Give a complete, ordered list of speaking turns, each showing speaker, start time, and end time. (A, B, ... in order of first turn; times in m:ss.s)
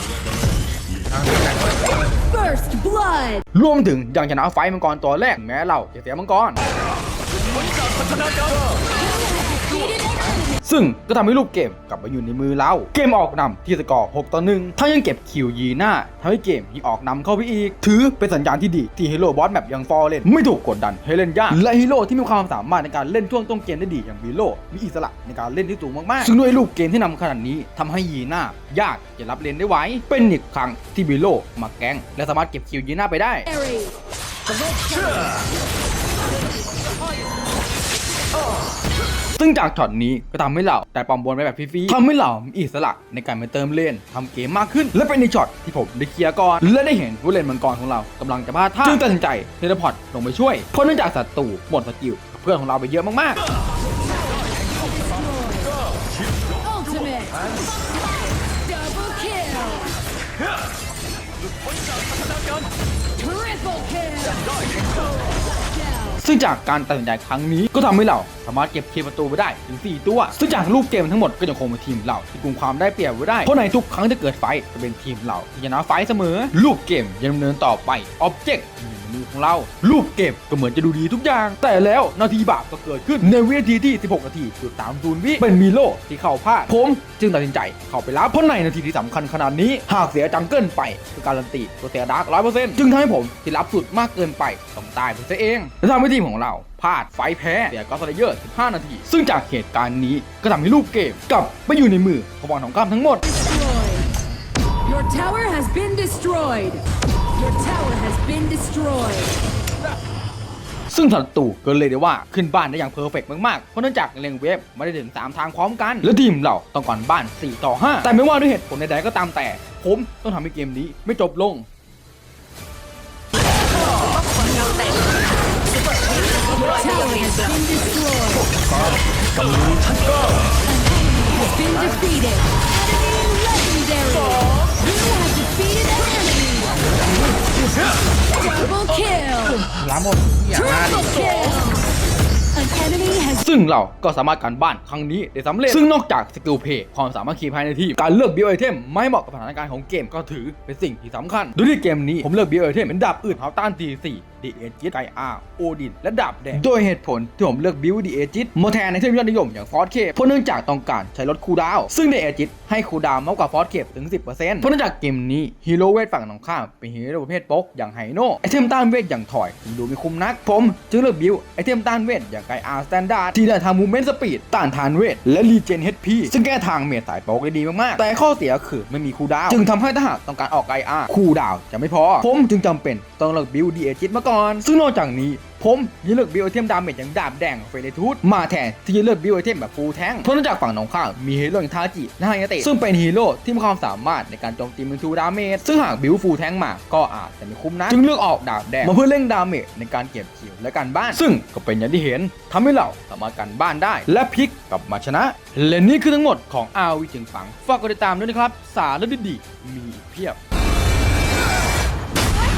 0:01.1-0:01.9 A
0:02.3-0:03.4 B
0:03.5-0:06.6 A
0:09.1-0:10.4 B
0:10.6-0:33.5 A
0:33.5-0:33.9 B
0:34.5-0:35.2 B
0:39.4-0:53.4 A
0:54.8-0:55.7 B
0:56.6-1:00.0 B
1:03.2-1:04.7 B
1:06.2-1:43.3 A
1:43.3-1:44.1 B
1:44.8-1:49.4 B
1:50.9-2:01.7 A
2:06.6-2:08.5 B
2:10.6-2:16.8 B
2:18.4-2:19.6 B
2:19.6-2:21.4 A
2:21.0-2:21.8 B
2:22.6-2:23.4 B
2:23.4-3:30.4 A